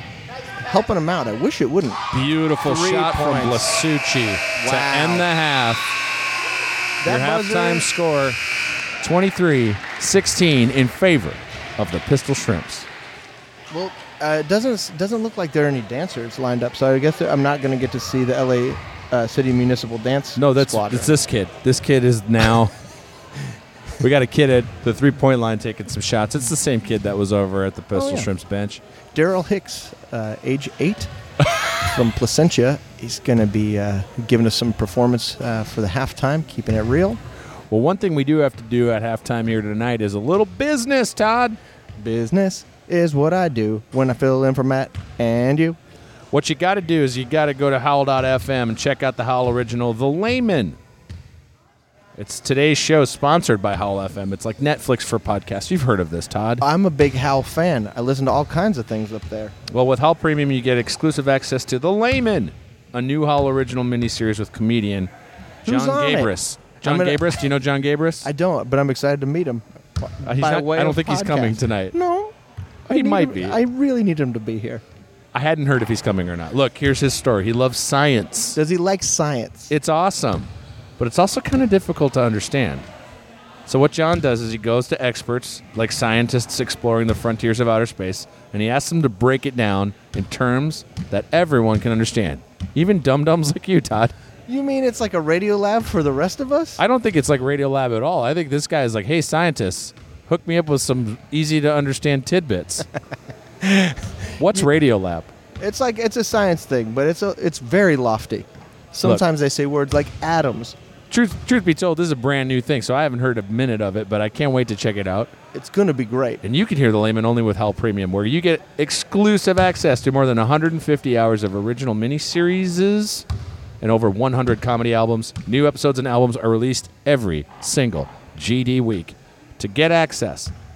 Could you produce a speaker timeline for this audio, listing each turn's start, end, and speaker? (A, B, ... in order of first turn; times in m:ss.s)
0:00.6-0:02.0 A
0:02.1-0:05.9 B
0:02.6-0:03.7 A
0:04.6-0:05.3 A
0:07.0-0:07.9 A
0:07.0-0:08.4 B
0:09.0-0:12.9 B
0:13.7-0:21.1 A
0:20.4-0:22.7 B
0:24.0-0:28.8 B
0:27.9-0:28.3 A
0:29.1-0:31.1 A
0:31.7-0:37.2 A
0:37.7-0:41.6 B
0:42.0-0:45.8 A
0:46.3-0:50.8 B
0:52.2-0:56.6 B
0:56.6-0:59.5 A
0:59.7-1:05.1 B
1:05.6-1:08.3 B
1:05.6-1:07.4 A
1:08.2-1:12.3 A
1:10.2-1:11.9 B
1:12.8-1:14.8 A
1:12.9-1:13.6 B
1:15.3-1:18.6 B
1:18.6-1:19.7 A
1:19.7-1:22.9 B
1:23.6-1:34.1 B
1:34.5-1:36.8 A
1:36.8-1:42.9 B
1:43.6-1:44.6 A
1:44.4-1:45.3 B
1:45.6-1:50.8 A
1:51.1-1:55.3 B
1:55.5-1:56.4 A
1:56.4-2:03.2 B
2:03.8-2:10.5 B